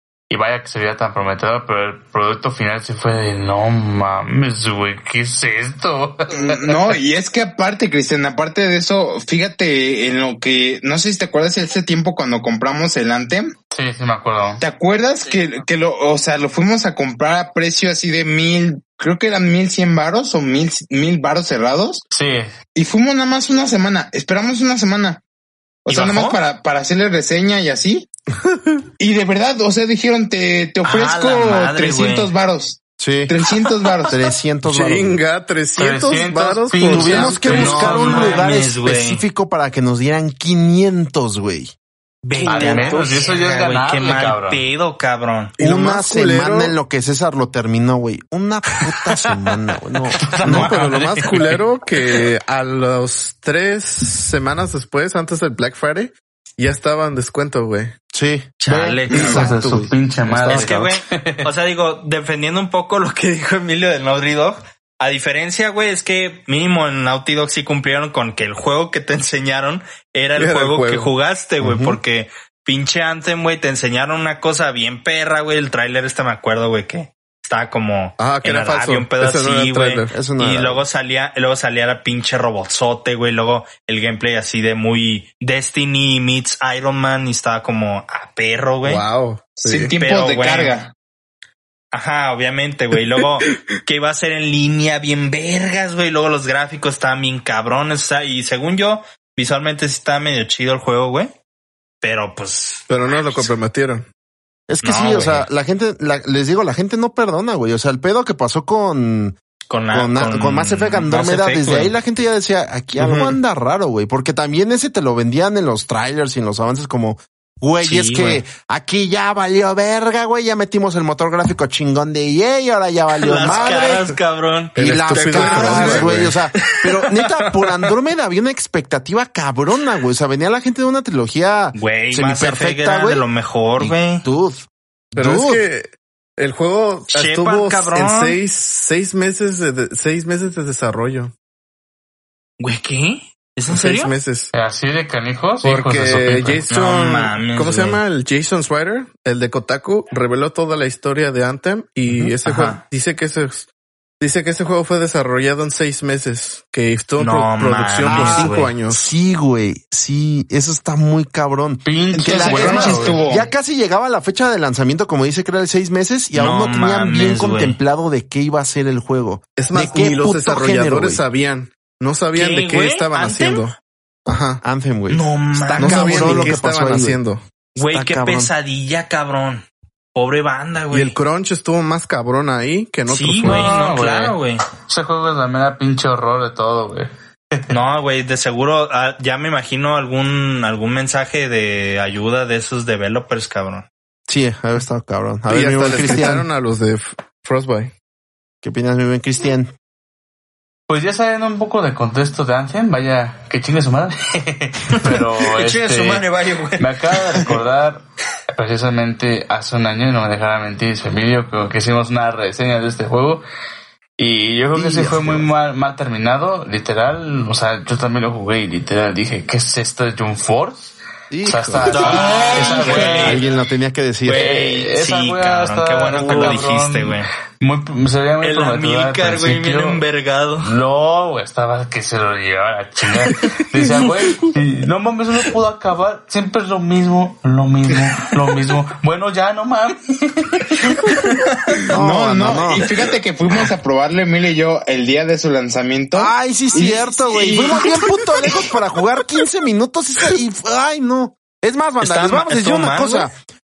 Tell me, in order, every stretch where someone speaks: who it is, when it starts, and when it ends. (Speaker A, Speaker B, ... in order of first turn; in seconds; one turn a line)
Speaker A: 0.3-6.6
Speaker B: 6.3-13.5
Speaker A: 13.7-14.6
Speaker B: 14.6-22.0
Speaker A: 22.1-22.5
Speaker B: 22.7-25.2
Speaker B: 25.8-28.1
Speaker C: 25.9-26.4
Speaker B: 29.0-34.2
Speaker C: 30.8-32.3
Speaker D: 33.0-33.3
Speaker D: 34.1-35.2
Speaker E: 34.6-38.4
Speaker A: 35.8-38.4
Speaker D: 36.8-41.7
Speaker C: 37.4-39.2
Speaker C: 42.2-45.6
Speaker A: 42.4-44.6
Speaker E: 45.6-46.7
Speaker D: 45.6-50.7
Speaker A: 50.1-52.2
Speaker E: 50.4-57.9
Speaker D: 58.1-58.6
Speaker C: 58.6-59.5
Speaker A: 58.7-61.5
Speaker D: 59.1-60.7
Speaker E: 59.1-60.6
Speaker C: 60.4-89.0
Speaker E: 70.3-71.1
Speaker D: 71.6-72.0
Speaker E: 78.2-80.2
Speaker D: 80.1-80.8
Speaker E: 88.8-89.9
Speaker B: 89.5-90.9
Speaker C: 90.0-90.7
Speaker C: 91.9-101.3
Speaker C: 102.0-103.5
Speaker E: 102.9-104.0
Speaker D: 104.7-109.4
Speaker C: 104.8-105.5
Speaker C: 109.7-111.9
Speaker D: 109.9-124.1
Speaker E: 113.0-113.3
Speaker C: 117.8-118.4
Speaker C: 123.2-127.9
Speaker E: 124.7-126.4
Speaker D: 124.8-133.2
Speaker C: 131.7-134.2
Speaker D: 133.8-135.6
Speaker E: 135.2-141.3
Speaker C: 137.1-138.4
Speaker C: 142.6-144.1
Speaker E: 143.7-144.5
Speaker A: 144.5-146.6
Speaker E: 145.6-153.7
Speaker C: 146.7-148.0
Speaker C: 152.4-152.8
Speaker E: 154.2-159.1
Speaker C: 157.2-158.7
Speaker D: 158.0-171.2
Speaker A: 161.8-163.2
Speaker B: 162.1-163.5
Speaker C: 166.3-167.8
Speaker E: 169.6-173.7
Speaker C: 172.3-173.7
Speaker E: 174.2-174.6
Speaker D: 174.6-175.2
Speaker C: 175.1-176.6
Speaker E: 175.5-177.4
Speaker D: 175.8-177.2
Speaker C: 177.8-179.6
Speaker D: 177.8-178.5
Speaker C: 180.1-181.2
Speaker E: 180.9-183.7
Speaker C: 183.1-184.6
Speaker A: 183.4-187.7
Speaker C: 187.7-193.9
Speaker D: 194.3-196.5
Speaker E: 195.5-197.9
Speaker D: 198.6-199.7
Speaker A: 200.9-206.2
Speaker C: 205.0-207.5
Speaker A: 206.8-208.0
Speaker A: 208.5-213.4
Speaker A: 214.2-223.4
Speaker D: 214.7-215.5
Speaker D: 221.3-224.4
Speaker C: 221.9-223.4
Speaker C: 224.2-227.3
Speaker A: 224.3-230.0
Speaker D: 226.2-226.6
Speaker C: 228.4-230.7
Speaker A: 230.6-241.3
Speaker D: 241.9-242.8
Speaker B: 241.9-248.1
Speaker D: 246.1-253.3
Speaker C: 252.0-253.3